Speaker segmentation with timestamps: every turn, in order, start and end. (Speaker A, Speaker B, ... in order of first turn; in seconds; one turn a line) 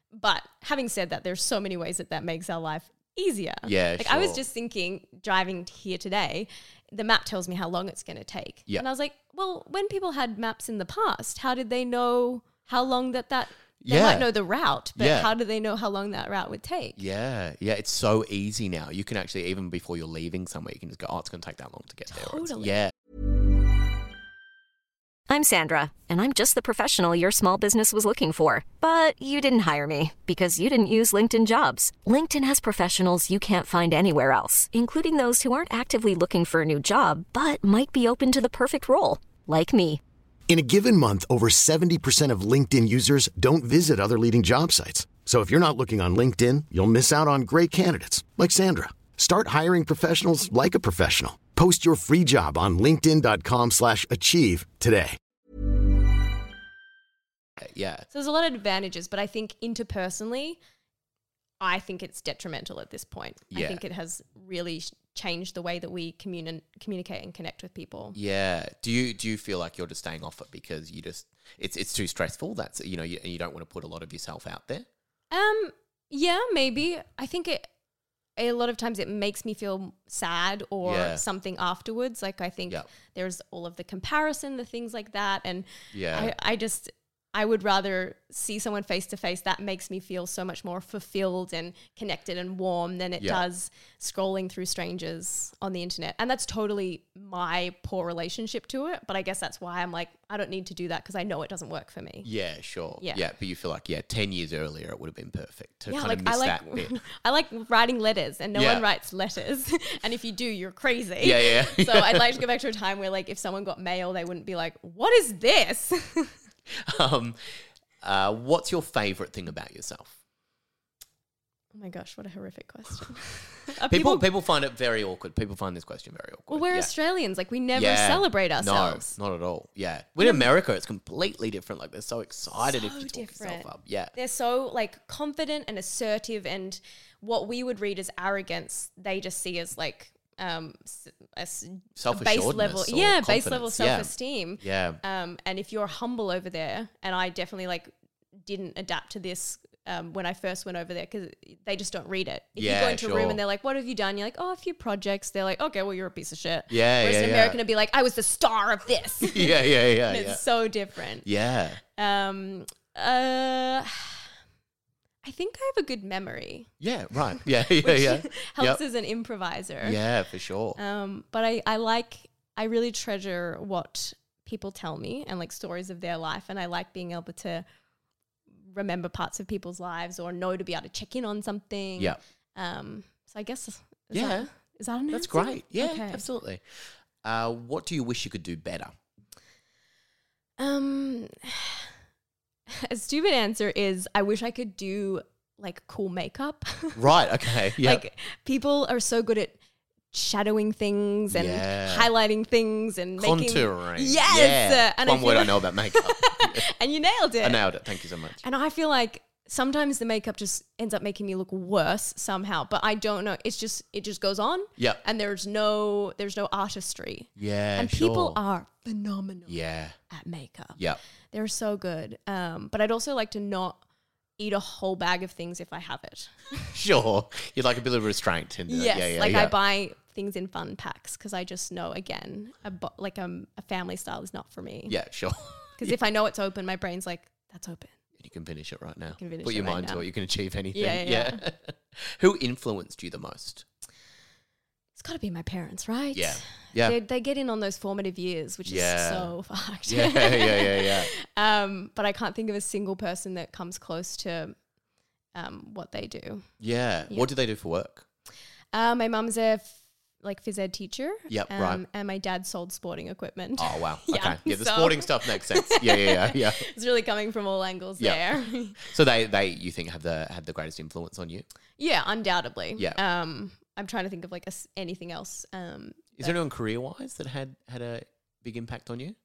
Speaker A: 0.1-17.0
Speaker B: 3.6-4.4
Speaker B: 13.8-14.3
Speaker B: 15.0-15.3
Speaker B: 17.0-22.9
Speaker A: 22.1-22.8
Speaker C: 25.3-40.0
Speaker D: 40.5-55.2
Speaker B: 57.6-58.1
Speaker A: 58.1-60.6
Speaker A: 61.6-68.2
Speaker B: 63.5-63.8
Speaker B: 68.2-74.9
Speaker A: 75.3-77.7
Speaker A: 78.4-102.3
Speaker B: 80.8-81.2
Speaker B: 85.9-86.3
Speaker B: 102.2-107.0
Speaker A: 105.9-116.3
Speaker B: 108.5-108.8
Speaker B: 111.2-112.4
Speaker B: 116.7-117.4
Speaker B: 118.0-120.2
Speaker A: 121.7-124.3
Speaker B: 123.9-126.9
Speaker A: 126.5-129.1
Speaker B: 127.7-134.1
Speaker A: 130.2-130.5
Speaker A: 132.6-161.3
Speaker B: 142.0-145.0
Speaker B: 152.6-153.4
Speaker B: 156.7-157.6
Speaker B: 159.2-160.4
Speaker B: 161.2-161.8
Speaker A: 161.9-164.3
Speaker A: 165.2-166.7
Speaker B: 166.8-168.8
Speaker A: 167.7-170.0
Speaker B: 169.8-170.8
Speaker A: 170.8-177.7
Speaker A: 178.7-186.2
Speaker B: 184.1-184.5
Speaker B: 185.1-186.6
Speaker B: 187.2-188.9
Speaker A: 190.6-191.9
Speaker A: 192.7-197.0
Speaker B: 196.9-198.0
Speaker A: 197.7-199.6
Speaker A: 200.1-207.7
Speaker B: 201.3-202.1
Speaker B: 203.2-206.7
Speaker B: 207.4-208.4
Speaker A: 208.4-219.6
Speaker B: 217.4-218.4
Speaker B: 219.5-220.0
Speaker A: 220.1-220.8
Speaker A: 221.3-223.8
Speaker A: 224.4-226.8
Speaker B: 226.7-229.6
Speaker A: 228.7-235.0
Speaker B: 234.9-235.9
Speaker A: 235.8-237.9
Speaker B: 238.2-243.7
Speaker A: 239.2-240.1
Speaker A: 240.7-241.4
Speaker A: 245.0-254.6
Speaker B: 246.1-246.9
Speaker B: 248.7-249.3
Speaker B: 249.9-251.1
Speaker A: 255.3-256.5
Speaker B: 256.6-258.1
Speaker A: 258.7-268.8
Speaker B: 261.3-261.8
Speaker B: 263.6-266.6
Speaker B: 268.8-271.5
Speaker A: 271.8-276.4
Speaker B: 276.2-279.1